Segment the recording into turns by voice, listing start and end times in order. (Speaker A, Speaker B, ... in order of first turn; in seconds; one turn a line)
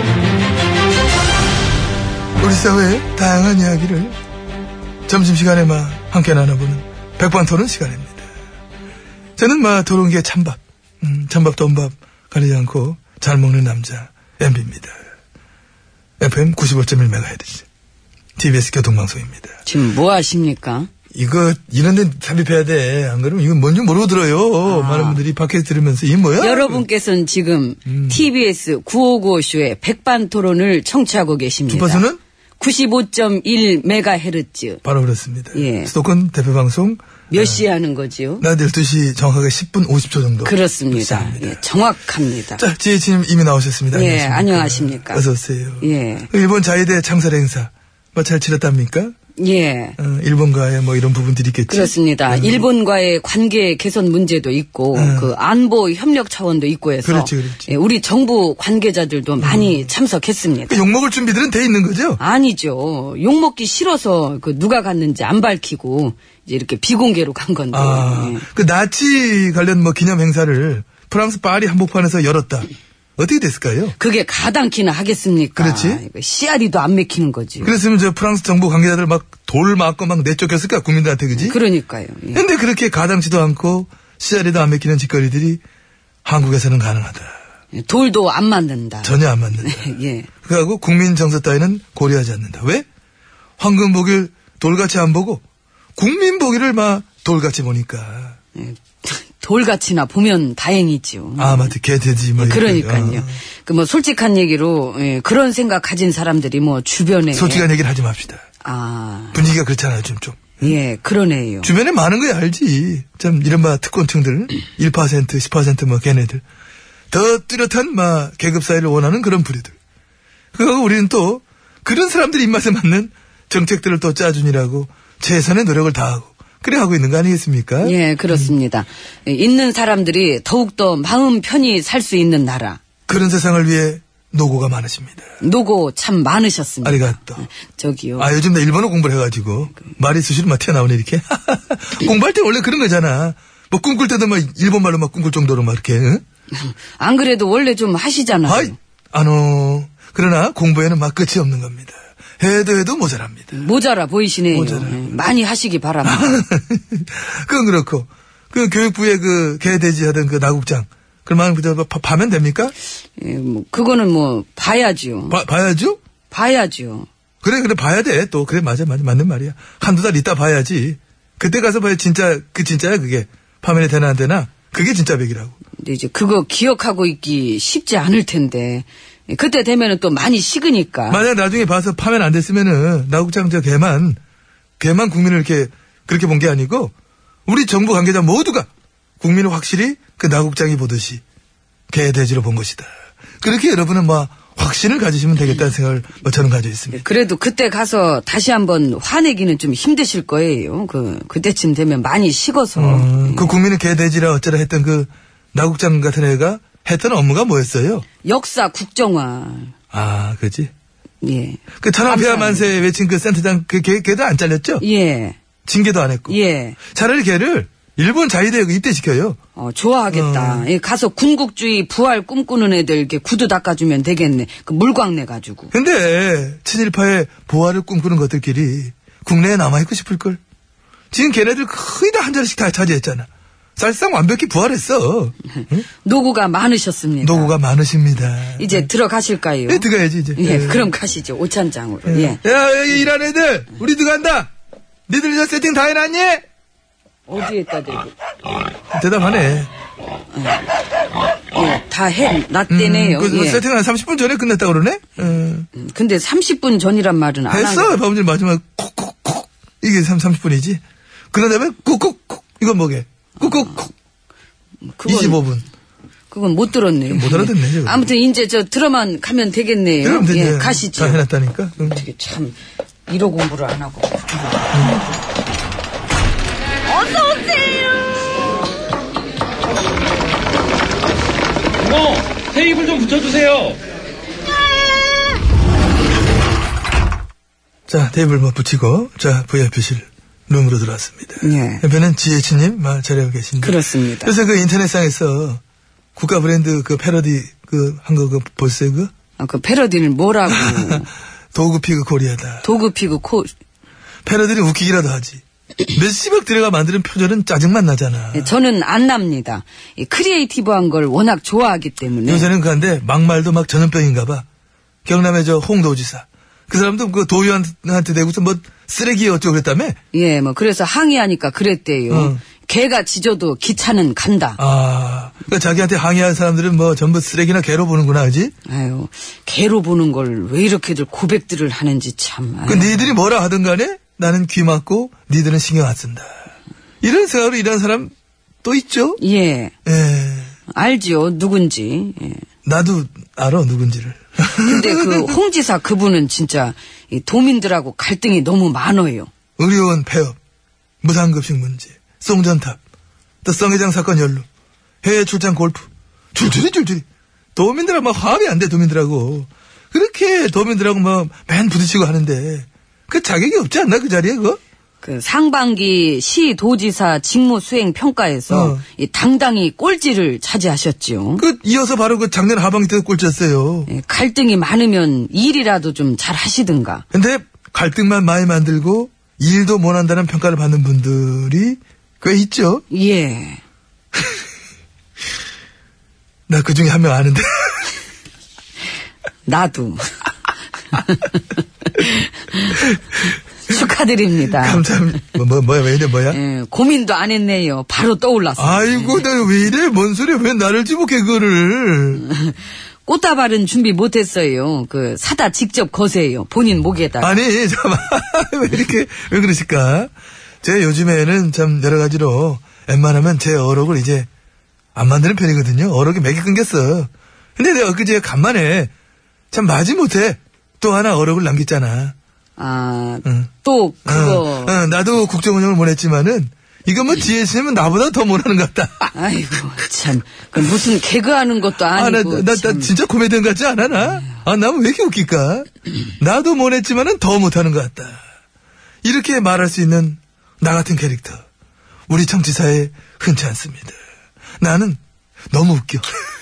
Speaker A: 2.4-4.2
Speaker A: 5.1-8.3
Speaker A: 9.4-15.0
Speaker A: 16.2-17.7
Speaker A: 18.4-19.6
Speaker B: 19.7-20.9
Speaker A: 21.1-26.8
Speaker B: 24.6-25.2
Speaker B: 26.4-32.0
Speaker A: 27.9-28.2
Speaker A: 31.7-32.2
Speaker B: 32.6-34.8
Speaker A: 34.8-37.6
Speaker B: 35.5-35.9
Speaker B: 37.3-38.5
Speaker A: 38.4-41.6
Speaker B: 40.4-42.6
Speaker A: 42.6-49.1
Speaker B: 43.9-45.2
Speaker B: 45.8-46.3
Speaker B: 49.4-50.0
Speaker A: 50.0-52.7
Speaker B: 51.7-60.8
Speaker A: 54.9-55.4
Speaker A: 57.0-57.7
Speaker A: 59.4-59.9
Speaker A: 60.7-62.2
Speaker B: 62.2-68.5
Speaker A: 67.7-74.0
Speaker B: 74.0-77.8
Speaker A: 75.6-76.0
Speaker A: 77.6-81.6
Speaker B: 81.4-82.5
Speaker A: 82.3-85.6
Speaker A: 86.2-87.4
Speaker B: 87.7-90.3
Speaker A: 89.0-89.9
Speaker A: 90.4-92.9
Speaker A: 93.6-95.4
Speaker A: 96.0-98.4
Speaker B: 98.5-101.7
Speaker A: 101.4-103.4
Speaker B: 102.4-107.7
Speaker A: 107.3-108.4
Speaker B: 108.6-109.4
Speaker A: 109.3-110.8
Speaker B: 110.6-111.7
Speaker A: 111.6-116.4
Speaker A: 117.1-119.8
Speaker A: 120.5-128.5
Speaker B: 127.8-132.8
Speaker A: 133.1-135.3
Speaker B: 135.4-138.3
Speaker A: 136.8-137.4
Speaker A: 138.2-146.2
Speaker B: 146.5-148.8
Speaker A: 148.4-153.5
Speaker B: 153.5-156.4
Speaker A: 154.5-155.2
Speaker A: 156.0-162.7
Speaker B: 163.2-165.4
Speaker A: 165.3-166.0
Speaker B: 166.3-167.1
Speaker A: 167.4-175.6
Speaker B: 175.8-181.3
Speaker A: 181.1-184.2
Speaker A: 184.8-186.9
Speaker A: 187.5-188.7
Speaker A: 189.2-191.2
Speaker A: 191.9-197.1
Speaker B: 196.9-203.6
Speaker A: 202.8-208.1
Speaker B: 208.2-209.7
Speaker A: 209.9-210.7
Speaker B: 211.2-212.8
Speaker A: 211.8-214.8
Speaker B: 214.8-215.4
Speaker A: 215.7-216.4
Speaker B: 216.3-216.8
Speaker A: 216.9-219.4
Speaker B: 219.6-225.7
Speaker A: 220.1-220.7
Speaker A: 225.7-230.4
Speaker A: 231.1-235.9
Speaker B: 235.6-237.5
Speaker A: 237.2-238.9
Speaker B: 238.6-242.4
Speaker A: 239.7-240.9
Speaker A: 242.1-244.5
Speaker A: 245.1-246.4
Speaker B: 247.3-248.1
Speaker A: 248.9-249.7
Speaker B: 250.3-250.7
Speaker B: 251.5-253.6
Speaker A: 252.7-255.7
Speaker B: 255.7-258.0
Speaker A: 257.5-260.8
Speaker A: 261.3-263.9
Speaker B: 263.4-263.9
Speaker B: 264.9-265.4
Speaker A: 265.1-265.7
Speaker B: 266.3-271.2
Speaker A: 267.1-268.1
Speaker A: 270.0-272.1
Speaker B: 271.8-275.0
Speaker A: 274.7-275.0
Speaker B: 276.9-277.9
Speaker C: 281.8-283.8
Speaker A: 287.9-295.6
Speaker B: 291.4-291.8
Speaker B: 293.6-294.3
Speaker A: 296.2-299.1
Speaker B: 299.4-301.1
Speaker A: 300.5-301.0
Speaker A: 301.5-302.8
Speaker B: 302.6-303.5
Speaker A: 304.3-308.5
Speaker B: 308.3-312.5
Speaker A: 312.3-314.4
Speaker A: 315.1-320.0
Speaker B: 320.1-324.6
Speaker A: 322.1-322.4
Speaker A: 324.6-328.5
Speaker B: 328.7-333.0
Speaker A: 332.7-336.3
Speaker A: 337.0-338.1
Speaker A: 338.6-339.2
Speaker B: 339.2-339.7
Speaker A: 339.9-340.6
Speaker B: 340.7-342.4
Speaker A: 342.6-345.4
Speaker B: 344.6-349.3
Speaker A: 349.6-350.4
Speaker A: 351.0-352.8
Speaker A: 353.4-354.5
Speaker A: 355.0-357.1
Speaker A: 357.6-364.6
Speaker B: 365.0-371.4
Speaker A: 368.5-368.8
Speaker A: 371.4-373.9
Speaker B: 373.9-377.1
Speaker A: 377.1-382.9
Speaker B: 382.9-383.6
Speaker A: 386.5-387.9
Speaker B: 389.5-390.3
Speaker B: 390.9-392.9
Speaker B: 393.6-394.8
Speaker A: 394.4-396.4
Speaker B: 396.3-399.2
Speaker A: 398.6-402.3
Speaker B: 402.2-407.4
Speaker A: 407.2-410.1
Speaker A: 410.6-414.3
Speaker A: 414.9-418.9
Speaker A: 419.5-422.1
Speaker B: 422.6-424.9
Speaker A: 423.2-423.5
Speaker A: 424.1-429.1
Speaker B: 429.1-432.9
Speaker A: 431.9-438.2
Speaker A: 439.0-441.4
Speaker A: 442.1-444.0
Speaker A: 444.6-445.0
Speaker A: 445.5-446.1